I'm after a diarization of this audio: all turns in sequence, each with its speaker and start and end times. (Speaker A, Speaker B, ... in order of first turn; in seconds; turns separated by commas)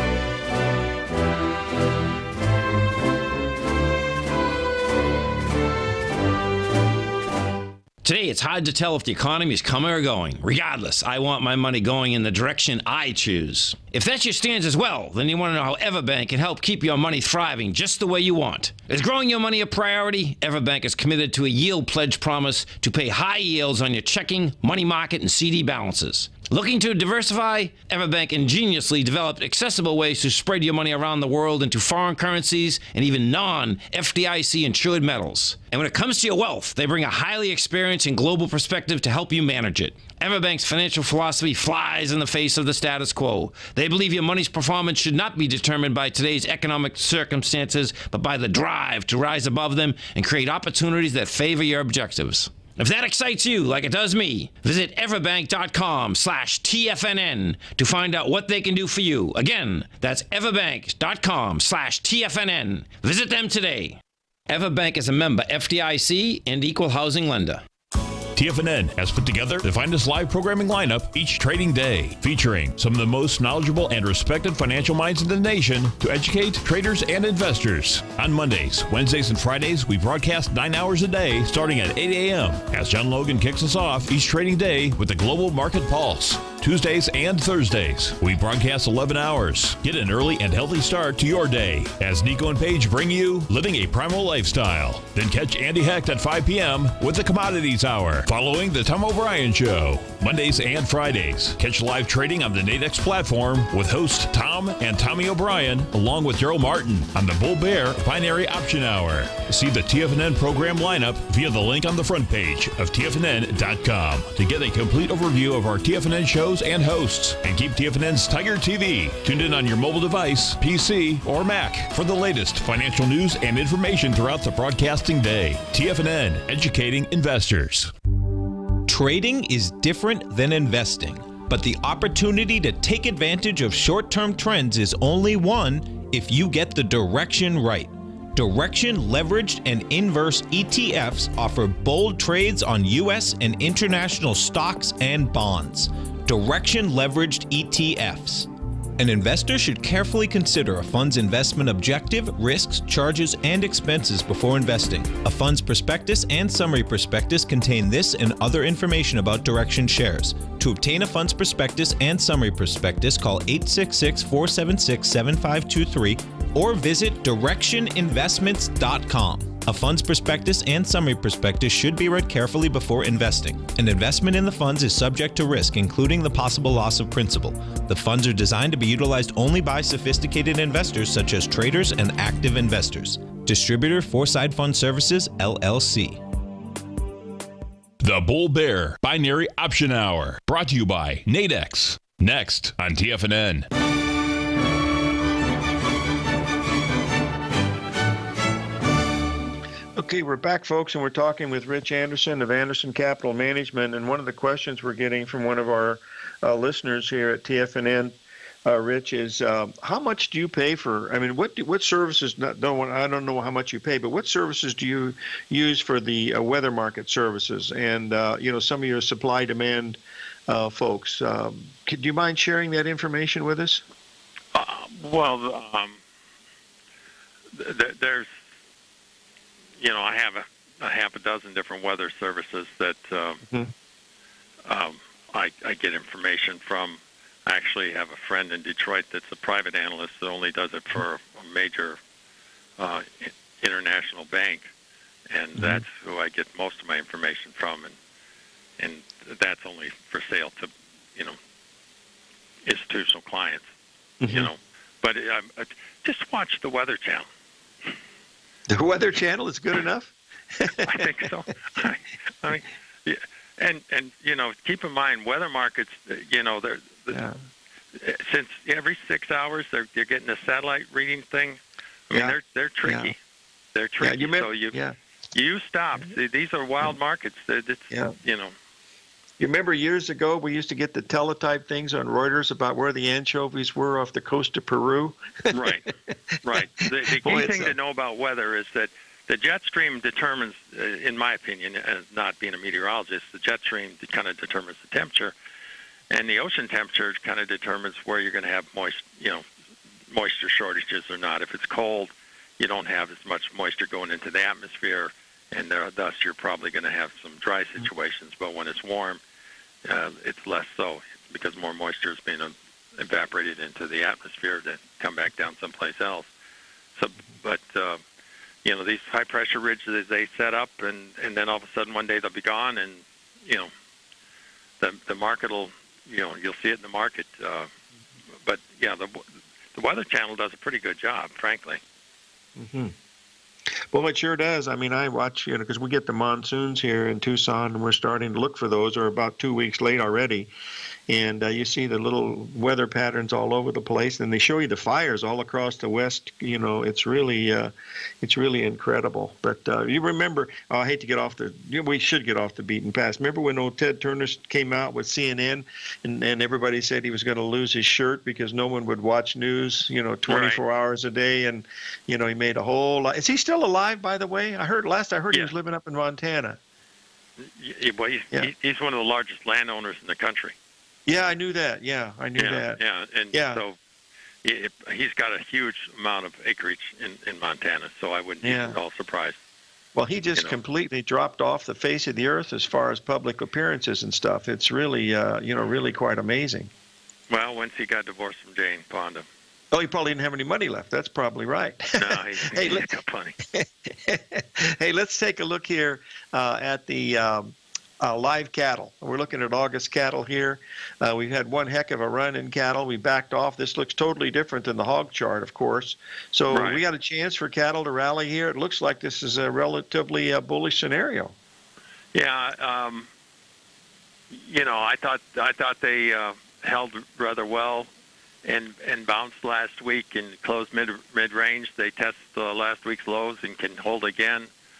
Speaker A: 8.0-67.6, Speaker B: 68.3-127.9, Speaker C: 128.8-186.2, Speaker B: 188.0-193.7, Speaker D: 199.9-223.8, Speaker E: 224.5-226.0, Speaker E: 227.5-228.3, Speaker E: 229.8-233.4, Speaker E: 234.7-242.0, Speaker E: 242.8-244.7, Speaker E: 245.3-247.9, Speaker D: 245.6-245.8, Speaker E: 248.8-251.3, Speaker E: 252.6-253.6, Speaker D: 254.2-254.5, Speaker E: 254.3-257.2, Speaker D: 258.7-261.2, Speaker E: 260.8-267.2, Speaker D: 267.1-267.4, Speaker E: 267.9-273.1, Speaker D: 272.1-273.1, Speaker E: 273.7-274.7, Speaker D: 274.0-274.9, Speaker E: 275.3-278.5, Speaker D: 279.4-285.6, Speaker E: 285.5-285.9, Speaker D: 286.1-287.7, Speaker E: 286.4-295.3, Speaker E: 296.1-299.4, Speaker E: 300.1-309.2, Speaker E: 309.8-316.3, Speaker E: 316.9-318.0, Speaker E: 318.6-323.7, Speaker E: 324.8-327.7, Speaker E: 328.4-331.8, Speaker D: 332.6-332.9, Speaker D: 333.9-340.5, Speaker D: 341.1-366.6, Speaker E: 360.3-360.6, Speaker E: 367.4-370.5, Speaker D: 371.1-372.8, Speaker E: 372.4-373.8, Speaker D: 373.3-373.6, Speaker E: 374.4-379.4, Speaker D: 378.4-378.8, Speaker D: 379.9-386.7, Speaker E: 387.3-389.2, Speaker D: 389.7-392.8, Speaker E: 392.0-393.4, Speaker D: 393.5-411.3, Speaker E: 406.5-406.8, Speaker E: 412.1-413.1, Speaker E: 414.3-417.9, Speaker E: 418.4-424.5